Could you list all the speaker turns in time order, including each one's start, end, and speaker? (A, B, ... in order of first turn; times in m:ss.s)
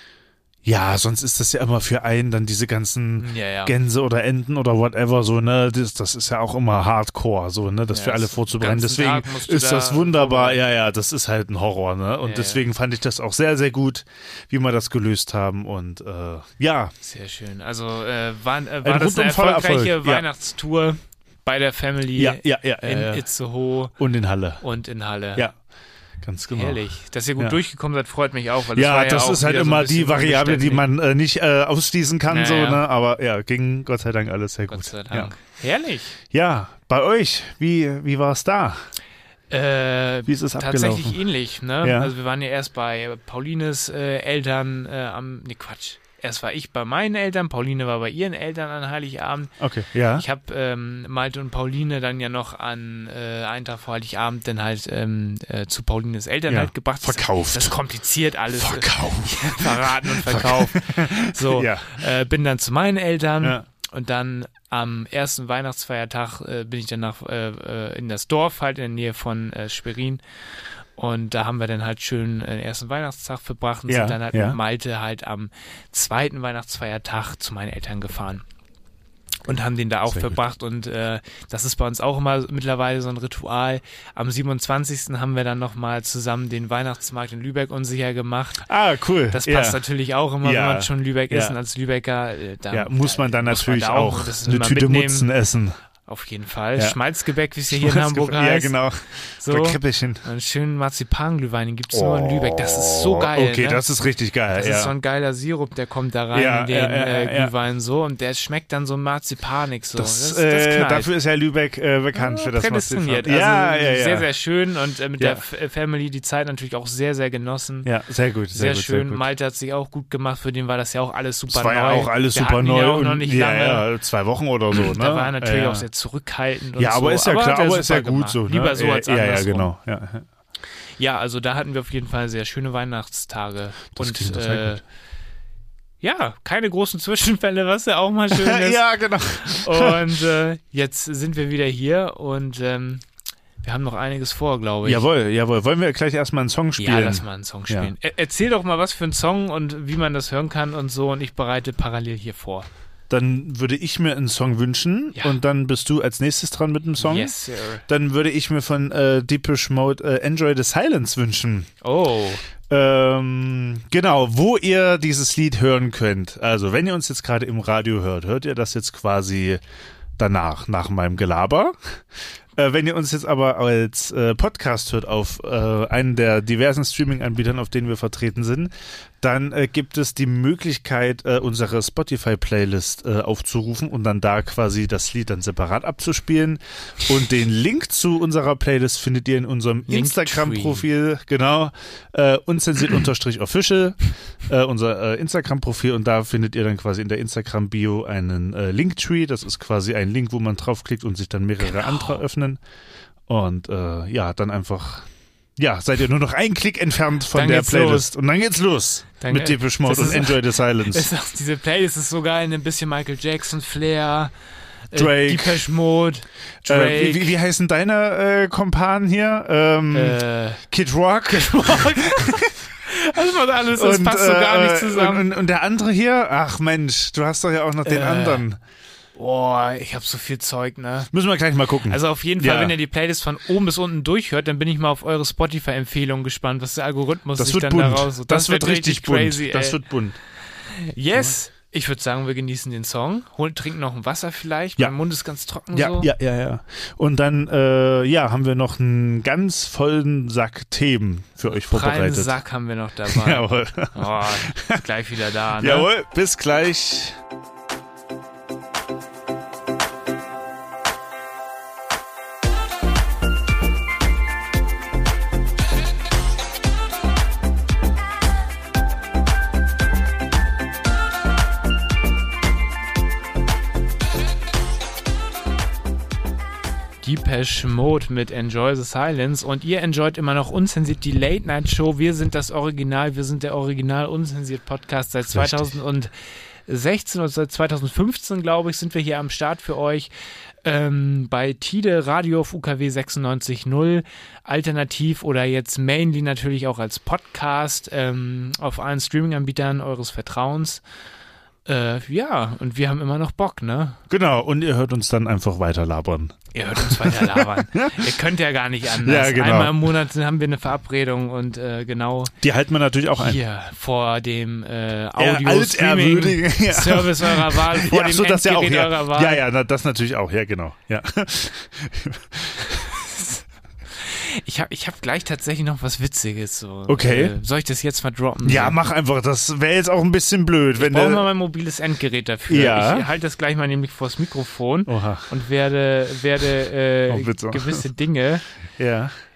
0:00.6-0:16.9 A
0:03.2-0:03.7 B
0:07.9-0:10.7 B
0:12.2-0:12.6 B
0:17.0-0:23.9 B
0:18.8-0:20.2 A
0:22.2-0:23.2 A
0:24.0-0:24.6 A
0:24.6-0:25.5 B
0:26.2-0:26.8 A
0:26.5-0:30.8 B
0:28.7-0:35.3 A
0:32.3-0:32.8 B
0:34.7-0:36.2 B
0:36.3-0:38.8 A
0:39.5-0:49.5 B
0:40.3-0:41.2 A
0:41.8-0:42.1 A
0:49.6-0:50.2 A
0:50.1-1:10.2 B
0:56.5-0:57.7 A
0:58.5-1:02.0 A
1:11.0-1:18.4 B
1:13.9-1:14.6 A
1:19.4-1:28.7 B
1:20.1-1:20.4 A
1:28.6-1:29.8 A
1:29.3-1:35.3 B
1:30.4-1:31.6 A
1:32.7-1:35.8 A
1:36.0-1:38.7 B
1:37.7-1:40.2 A
1:39.4-1:43.8 B
1:41.9-1:44.9 A
1:44.6-1:51.1 B
1:46.3-1:47.5 A
1:50.0-1:54.3 A
1:52.1-1:57.9 B
1:57.8-1:59.2 A
1:58.5-2:03.8 B
2:01.5-2:05.8 A
2:04.7-2:09.7 B
2:06.8-2:10.2 A
2:11.0-2:14.8 B
2:13.9-2:14.8 A
2:16.0-2:23.0 B
2:18.3-2:20.2 A
2:23.6-2:25.0 B
2:24.8-2:27.9 A
2:26.8-2:32.7 B
2:33.1-2:37.3 A
2:35.1-2:35.4 B
2:37.0-2:37.8 B
2:37.9-2:41.7 A
2:41.8-2:42.4 B
2:42.7-2:49.6 A
2:50.2-2:51.8 A
2:52.6-3:22.6 A
3:09.9-3:10.9 B
3:21.6-3:22.2 B
3:23.3-3:31.1 A
3:27.3-3:28.1 B
3:29.2-3:34.3 B
3:34.9-3:37.3 B
3:34.9-3:35.6 A
3:36.6-3:42.5 A
3:39.9-3:40.6 B
3:41.3-3:45.3 B
3:43.7-3:48.6 A
3:47.8-3:48.4 B
3:49.2-3:51.1 B
3:51.1-3:52.8 A
3:51.8-3:59.8 B
3:57.4-4:00.2 A
4:00.7-4:06.1 B
4:05.7-4:12.4 A
4:11.4-4:15.9 B
4:13.1-4:14.8 A
4:15.6-4:17.2 A
4:37.0-4:46.1 B
4:45.3-4:45.7 A
4:46.6-4:50.1 B
4:50.6-5:00.8 B
5:01.6-5:04.0 B
5:04.1-5:08.1 A
5:06.5-5:12.3 B
5:09.0-5:09.8 A
5:12.4-5:13.4 A
5:13.2-5:19.4 B
5:15.2-5:23.0 A
5:22.9-5:23.4 B
5:23.9-5:28.8 B
5:26.9-5:27.3 A
5:28.4-5:31.2 A
5:30.8-5:38.4 B
5:32.5-5:33.0 A
5:34.9-5:35.3 A
5:37.1-5:37.8 A
5:38.8-5:39.1 A